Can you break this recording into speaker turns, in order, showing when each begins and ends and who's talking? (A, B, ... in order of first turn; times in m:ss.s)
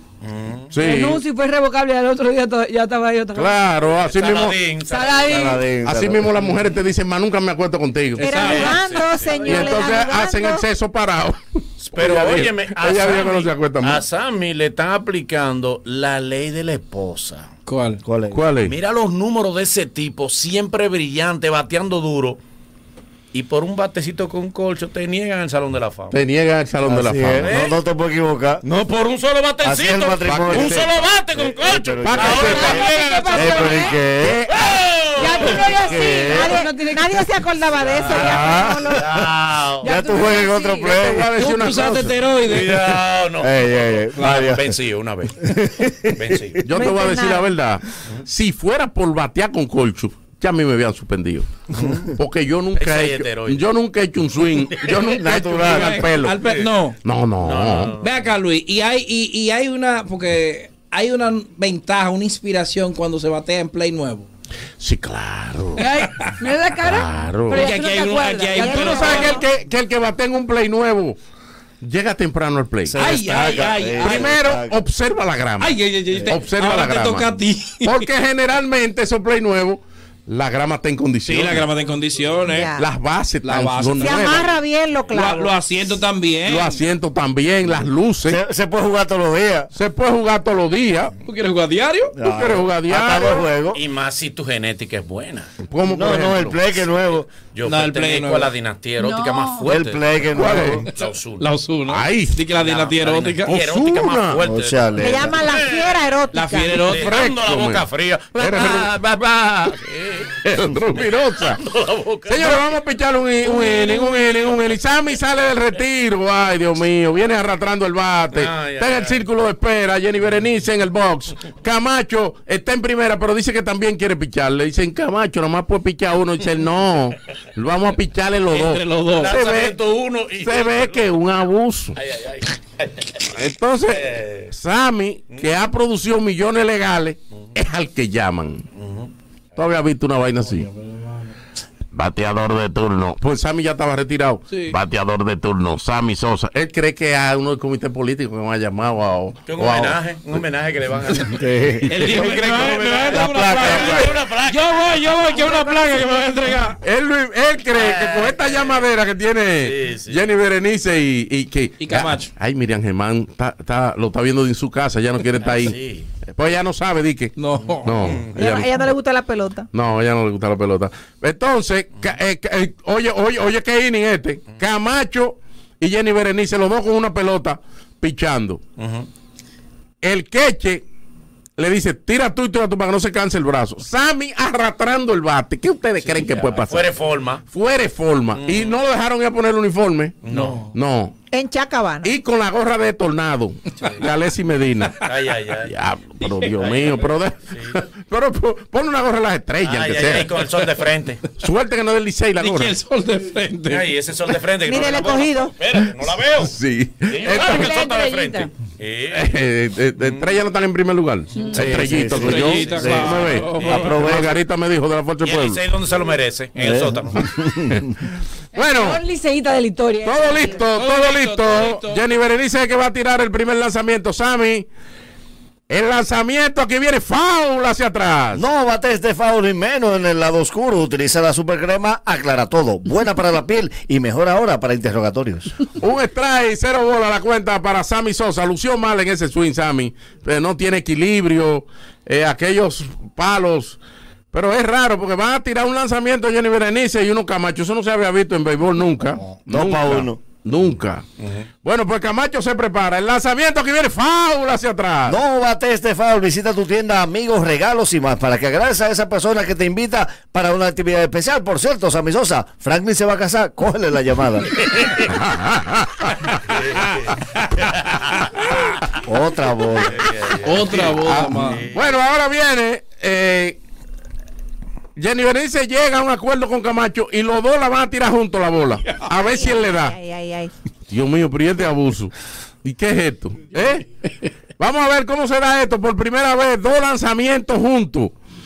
0:00.2-0:00.8 A
0:00.7-0:01.2 B
0:00.8-0:03.6 C
0:03.3-0:04.6 B
0:03.9-0:05.6 A
0:04.9-0:05.6 C
0:05.3-0:06.4 D
0:05.8-0:08.5 B
0:08.2-0:08.9 E
0:08.2-0:10.6 F
0:08.3-0:09.4 A
0:09.5-0:11.4 B
0:09.5-0:09.8 E
0:11.8-0:17.5 A
0:12.0-0:14.0 B
0:17.7-0:18.0 E
0:18.0-0:18.4 D
0:18.3-0:18.7 B
0:18.6-0:22.4 A
0:23.3-0:26.2 A
0:26.1-0:27.5 B
0:26.8-0:28.6 D
0:27.4-0:27.8 A
0:28.6-0:33.9 A
0:29.6-0:34.5 D
0:30.3-0:30.9 B
0:32.0-0:32.9 B
0:32.4-0:34.0 C
0:34.2-0:34.8 B
0:34.5-0:36.0 A
0:35.2-0:37.2 C
0:35.3-0:36.4 B
0:35.7-0:36.5 D
0:36.3-0:39.3 F
0:37.8-0:38.4 A
0:38.1-0:39.2 B
0:38.9-0:40.1 A
0:39.8-0:41.3 D
0:39.8-0:41.0 C
0:40.8-0:42.2 B
0:41.3-0:42.9 E
0:42.4-0:45.5 A
0:43.4-0:44.6 D
0:44.2-0:44.5 E
0:45.4-0:46.4 D
0:46.1-0:46.7 A
0:46.7-0:51.5 B
0:46.7-0:47.5 F
0:51.7-0:52.0 A
0:52.1-0:56.4 B
0:52.8-0:53.7 A
0:54.5-0:55.0 A
0:55.1-0:56.1 D
0:55.6-0:57.0 E
0:56.4-0:56.7 A
0:57.0-0:58.0 B
0:57.4-0:58.3 A
0:58.0-1:04.3 E
1:04.8-1:05.9 B
1:05.8-1:09.3 C
1:06.8-1:07.8 B
1:07.5-1:09.4 E
1:08.5-1:11.2 B
1:08.8-1:09.4 F
1:11.8-1:13.0 B
1:12.9-1:14.8 D
1:12.9-1:14.4 E
1:14.0-1:21.7 B
1:15.6-1:18.1 E
1:21.3-1:22.8 E
1:22.5-1:22.8 F
1:22.8-1:24.5 B
1:23.4-1:24.5 E
1:24.0-1:25.6 F
1:25.1-1:26.8 E
1:26.5-1:28.4 B
1:28.3-1:29.7 D
1:29.7-1:31.2 B
1:31.3-1:32.2 E
1:32.2-1:33.8 D
1:32.2-1:33.5 B
1:33.7-1:35.5 A
1:35.7-1:36.6 B
1:35.8-1:37.3 D
1:37.5-1:41.5 A
1:37.7-1:38.5 E
1:39.0-1:39.7 C
1:39.6-1:40.8 D
1:40.4-1:40.8 B
1:41.4-1:43.6 E
1:41.9-1:42.4 B
1:42.6-1:46.0 A
1:43.5-1:44.4 B
1:44.4-1:45.4 D
1:45.0-1:46.9 F
1:46.3-1:47.2 E
1:46.7-1:49.0 A
1:46.9-1:49.8 B
1:49.6-1:50.3 A
1:50.4-1:51.7 B
1:50.9-1:52.8 A
1:52.3-2:09.8 B
1:53.4-1:54.8 A
1:58.3-1:59.2 A
2:08.5-2:09.3 E
2:09.2-2:11.1 A
2:10.4-2:12.0 B
2:12.0-2:13.2 A
2:13.3-2:18.7 B
2:13.9-2:14.5 A
2:18.8-2:19.1 A
2:19.6-2:20.7 B
2:20.8-2:21.1 E
2:21.9-2:30.4 B
2:24.5-2:24.8 E
2:29.5-2:35.6 A
2:31.4-2:32.2 D
2:31.9-2:36.8 E
2:33.1-2:34.1 D
2:36.8-2:45.8 B
2:37.7-2:38.8 A
2:39.6-2:40.2 A
2:41.8-2:42.3 E
2:45.4-2:46.1 A
2:46.4-2:48.8 B
2:47.4-2:48.3 E
2:48.0-2:48.3 A
2:48.4-2:49.7 F
2:49.7-2:58.6 B
2:58.8-2:59.1 A
3:00.0-3:00.8 B
3:01.6-3:07.0 B
3:06.0-3:07.4 A
3:07.5-3:11.2 B
3:08.4-3:08.8 A
3:10.2-3:10.6 A
3:10.3-3:10.7 E
3:11.3-3:12.1 F
3:12.0-3:15.0 B
3:15.0-3:15.7 A
3:15.7-3:20.5 B
3:16.2-3:16.5 E
3:16.6-3:17.8 A
3:19.6-3:21.2 A
3:21.4-3:22.8 B
3:22.4-3:24.0 E
3:23.7-3:26.5 A
3:24.6-3:25.6 F
3:25.8-3:27.8 B
3:27.1-3:29.3 A
3:27.4-3:28.5 C
3:29.1-3:35.6 B
3:30.0-3:30.3 A
3:31.5-3:33.9 A
3:31.5-3:34.4 D
3:32.0-3:33.9 E
3:35.2-3:37.3 A
3:36.6-3:37.9 D
3:38.6-3:39.0 B
3:38.6-3:40.6 C
3:40.0-3:44.7 B
3:40.7-3:42.0 E
3:45.7-3:48.4 B
3:48.3-3:55.6 D
3:55.8-4:03.8 B
4:04.3-4:11.0 B
4:09.2-4:10.2 D
4:11.6-4:15.2 B
4:15.1-4:24.7 D
4:24.6-4:25.1 A
4:25.1-4:26.6 B
4:26.5-4:27.2 A
4:29.0-4:30.1 D
4:29.8-4:32.0 A
4:30.4-4:31.6 E
4:30.9-4:33.6 B
4:35.0-4:40.0 B
4:39.3-4:40.5 F
4:40.9-4:42.1 B
4:42.6-4:43.9 B
4:44.6-4:48.1 B